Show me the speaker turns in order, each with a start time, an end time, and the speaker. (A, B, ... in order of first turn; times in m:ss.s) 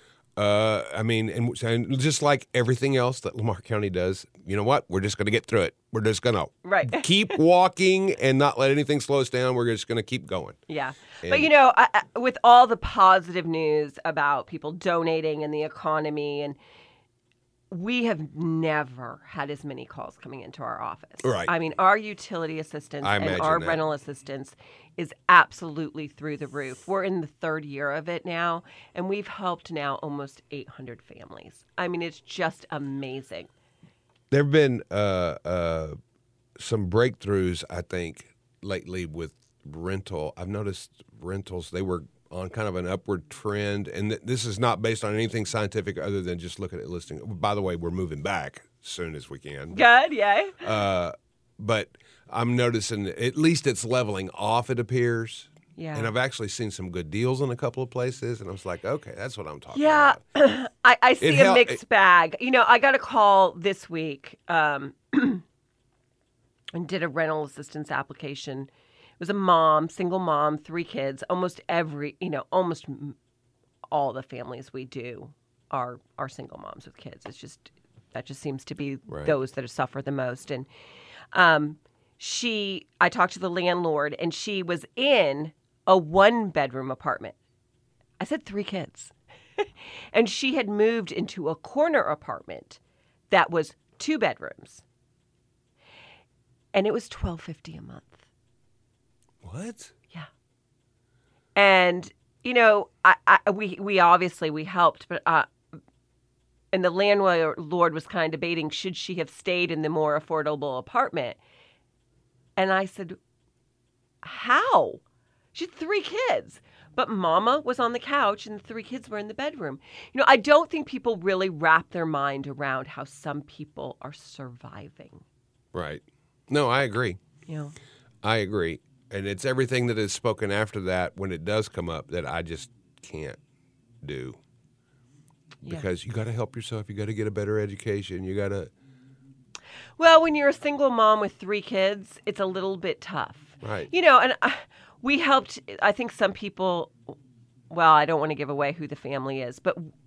0:00.4-0:10.6 A
0:06.6-0:07.4 B
0:10.7-0:16.6 B
0:11.2-0:11.5 A
0:17.7-0:33.5 B
0:21.2-0:21.5 A
0:23.0-0:23.8 A
0:34.3-0:36.0 A
0:36.6-0:49.8 A
0:49.7-0:50.6 B
0:50.6-1:00.2 A
0:55.8-0:56.1 B
0:59.7-1:05.4 B
1:01.2-1:01.8 A
1:06.7-1:13.2 B
1:13.9-1:20.7 B
1:19.1-1:19.3 A
1:21.3-1:27.3 B
1:28.2-1:32.8 B
1:33.3-1:34.8 B
1:36.7-1:38.2 B
1:39.4-1:39.9 A
1:41.6-1:45.5 B
1:46.7-1:51.4 B
1:52.6-1:53.2 B
1:54.2-1:55.0 B
1:55.5-2:05.2 B
2:05.7-2:07.2 A
2:07.5-2:07.7 B
2:08.2-2:13.4 A
2:14.0-2:14.4 A
2:15.6-2:18.7 A
2:20.0-2:27.0 B
2:23.6-2:23.9 A
2:27.7-2:29.9 B